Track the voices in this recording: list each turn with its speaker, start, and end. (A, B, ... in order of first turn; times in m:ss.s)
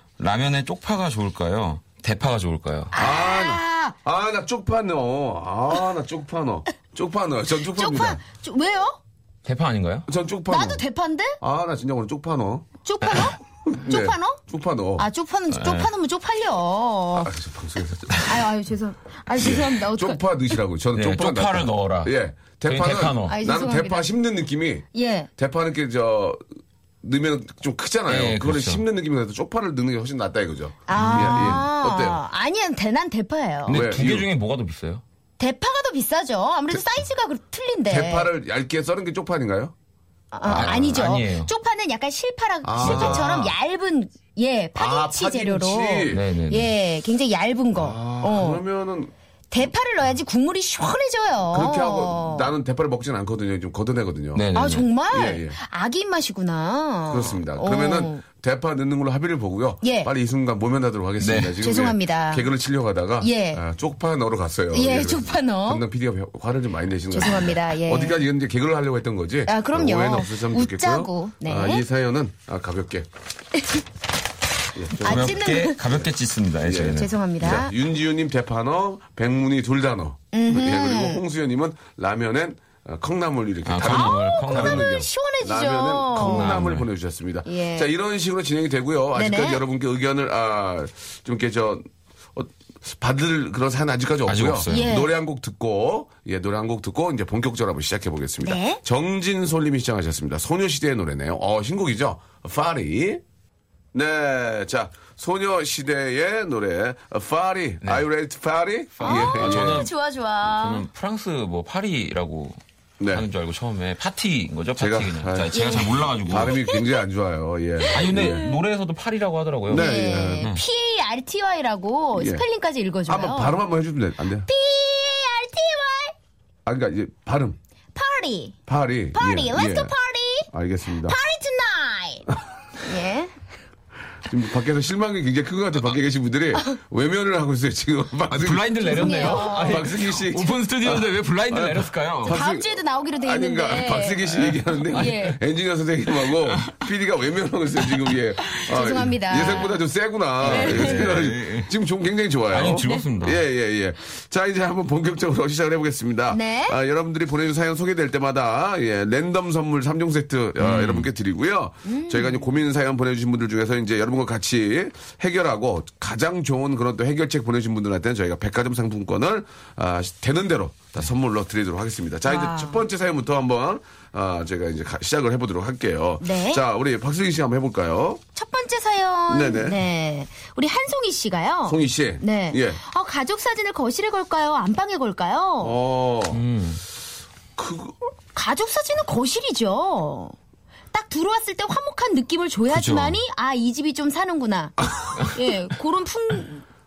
0:00.2-0:02.9 A
0:02.9-0:04.0 B
0:02.9-0:08.2 C
0:07.7-0:09.0 B
0:09.4-0:10.1 A
0:10.1-0:10.8 C
0:10.5-0:11.4 B
0:11.4-0:12.7 C
0:12.8-0:14.4 B
0:13.0-0:13.3 A
0:13.6-0:15.1 C
0:15.0-0:17.3 B
0:15.5-0:15.9 A
0:17.1-0:18.2 C
0:18.2-0:20.2 B
0:19.4-0:24.9 C
0:21.0-0:22.1 A
0:22.6-0:23.4 A
0:23.3-0:24.1 B
0:24.9-0:25.3 B
0:25.4-0:26.4 C
0:27.0-0:32.2 C
0:28.1-0:28.8 A
0:30.9-0:33.8 B
0:30.9-0:31.7 A
0:33.7-0:35.0 A
0:33.7-0:34.3 C
0:35.4-0:38.3 B
0:37.9-0:39.7 C
0:40.3-0:48.6 B
0:40.4-0:41.1 C
0:40.5-0:41.5 A
0:42.6-0:43.6 C
0:42.8-0:43.3 A
0:44.8-0:46.3 C
0:46.1-0:46.7 A
0:47.8-0:49.1 C
0:49.5-0:52.5 B
0:51.5-0:54.4 C
0:54.4-0:54.9 A
0:54.5-0:58.2 B
0:55.1-0:55.6 C
0:57.1-1:13.1 C
0:59.8-1:00.1 B
1:01.2-1:01.6 A
1:01.6-1:02.5 B
1:03.2-1:03.6 B
1:04.7-1:05.8 B
1:07.1-1:08.2 B
1:09.5-1:11.8 B
1:13.6-1:13.8 B
1:14.7-1:16.1 C
1:15.0-1:15.8 B
1:15.0-1:17.6 A
1:16.6-1:43.2 C
1:17.0-1:17.7 B
1:20.3-1:21.2 B
1:23.7-1:24.9 A
1:23.8-1:26.6 B
1:26.1-1:26.9 A
1:27.4-1:27.9 B
1:29.2-1:29.6 B
1:34.3-1:34.9 A
1:34.7-1:35.1 B
1:38.4-1:38.8 B
1:43.9-1:49.9 C
1:49.0-1:49.9 A
1:49.0-1:50.8 B
1:50.4-1:52.6 A
1:53.0-1:53.3 C
1:53.1-1:56.6 A
1:54.8-1:55.6 C
1:55.5-1:56.9 B
1:56.2-1:58.5 C
1:57.8-1:58.6 B
1:57.9-2:00.6 A
1:59.7-2:00.5 C
1:59.7-2:03.6 B
2:02.2-2:02.4 C
2:03.1-2:04.5 C
2:04.5-2:06.2 B
2:06.7-2:07.6 C
2:08.0-2:08.6 B
2:08.7-2:09.9 C
2:09.1-2:12.3 B
2:10.5-2:11.2 C
2:12.8-2:13.3 B
2:14.2-2:58.2 C
2:18.4-2:22.4 A
2:18.8-2:19.9 B
2:22.3-2:25.4 B
2:24.5-2:25.2 A
2:26.3-2:26.8 A
2:27.9-2:28.2 A
2:28.6-2:29.8 B
2:29.3-2:29.7 A
2:30.4-2:31.1 B
2:30.4-2:31.7 A
2:32.5-2:33.4 A
2:36.3-2:36.8 B
2:40.6-2:41.1 A
2:41.9-2:42.5 B
2:52.3-2:52.8 B
2:56.2-2:56.6 B
2:58.4-3:05.8 B
2:59.3-2:59.8 C
3:01.7-3:02.8 C
3:05.6-3:06.4 C
3:06.3-3:06.8 A
3:07.6-3:08.0 C
3:08.3-3:10.4 B
3:10.9-3:16.6 B
3:12.7-3:13.2 A
3:14.8-3:15.2 C